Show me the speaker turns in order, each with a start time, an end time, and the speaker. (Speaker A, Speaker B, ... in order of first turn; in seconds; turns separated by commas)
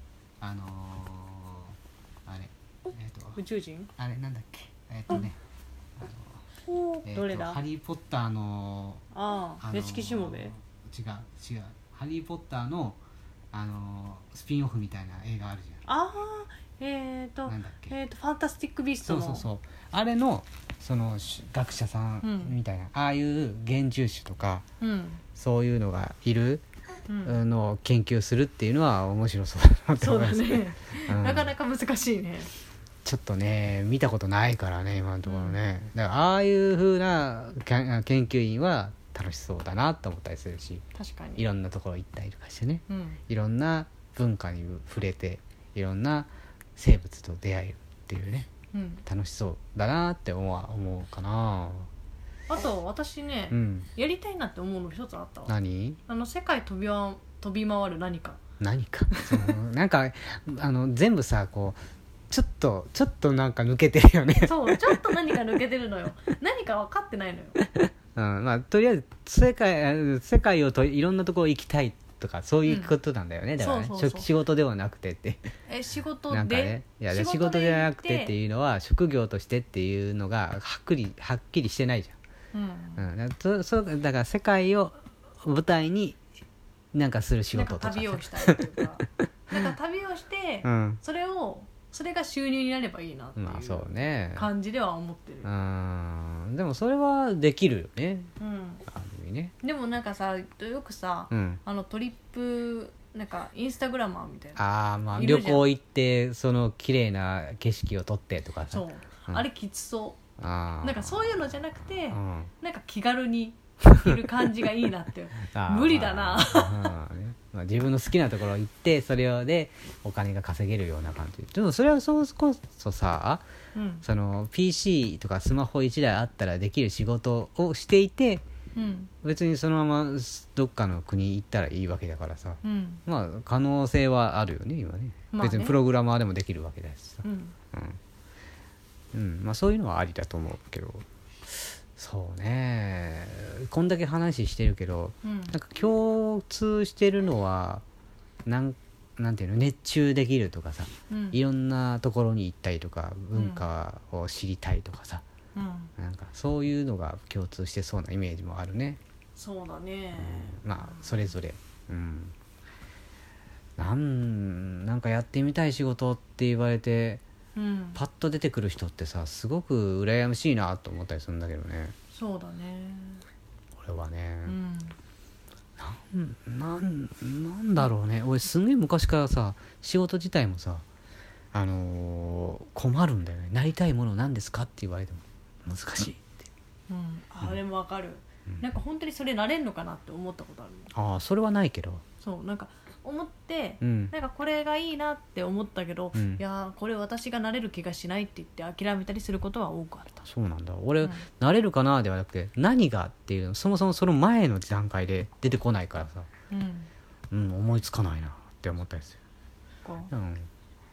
Speaker A: 0.4-3.4, Speaker B: 3.4-3.9, Speaker A: 4.0-5.4, Speaker A: 6.0-6.4, Speaker B: 6.7-7.6, Speaker A: 7.0-9.0, Speaker B: 9.1-10.5, Speaker A: 9.6-13.0, Speaker A: 13.5-15.8, Speaker B: 15.8-19.5, Speaker A: 17.4-18.0, Speaker A: 19.0-24.6, Speaker B: 22.2-22.6, Speaker B: 24.8-25.2, Speaker A: 25.3-26.6, Speaker B: 27.1-27.4, Speaker A: 27.2-31.5, Speaker B: 30.0-32.5, Speaker A: 33.0-40.8, Speaker B: 35.2-35.6, Speaker B: 40.9-41.4, Speaker A: 41.4-48.5, Speaker B: 42.9-43.2, Speaker B: 48.7-49.0, Speaker A: 49.0-51.9, Speaker B: 52.5-55.5, Speaker A: 53.5-53.9, Speaker A: 55.5-56.0, Speaker B: 56.1-58.4, Speaker A: 58.6-61.8, Speaker B: 59.1-59.5, Speaker A: 62.3-65.2, Speaker B: 64.3-67.6, Speaker A: 67.8-75.5, Speaker B: 72.7-72.9, Speaker B: 73.6-74.3, Speaker B: 75.7-78.3, Speaker A: 76.3-82.2, Speaker B: 82.5-83.0, Speaker A: 83.0-86.2, Speaker A: 86.9-88.7, Speaker B: 87.5-95.5, Speaker A: 90.6-91.0, Speaker A: 93.3-94.5, Speaker A: 95.4-98.3, Speaker B: 98.4-98.8, Speaker A: 98.9-99.5, Speaker B: 99.6-105.7, Speaker A: 101.3-101.6, Speaker A: 104.5-109.5, Speaker B: 108.7-110.2, Speaker A: 110.4-112.5, Speaker B: 110.8-116.9, Speaker A: 113.8-114.2, Speaker A: 115.4-123.4, Speaker B: 123.7-124.0, Speaker A: 124.0-128.4, Speaker B: 128.7-129.1, Speaker A: 129.2-138.0, Speaker B: 132.6-133.0, Speaker B: 135.3-135.8, Speaker B: 137.2-137.5, Speaker A: 139.1-147.8, Speaker B: 145.2-145.5, Speaker A: 148.4-155.2, Speaker B: 151.1-151.4, Speaker B: 153.3-153.7, Speaker B: 155.5-155.9, Speaker A: 156.0-159.0, Speaker B: 159.3-161.2, Speaker A: 160.2-162.3, Speaker A: 163.8-167.2, Speaker B: 167.5-168.0, Speaker A: 167.9-171.9, Speaker B: 172.1-173.2, Speaker A: 173.8-174.5, Speaker B: 174.4-174.9, Speaker A: 175.8-180.8, Speaker A: 181.5-186.2, Speaker B: 186.9-190.9, Speaker A: 190.9-192.0, Speaker B: 192.2-200.2, Speaker A: 193.8-194.1, Speaker A: 196.1-196.4, Speaker A: 200.2-206.3, Speaker B: 206.5-206.9, Speaker A: 207.3-209.2, Speaker B: 209.8-210.1, Speaker A: 210.1-210.5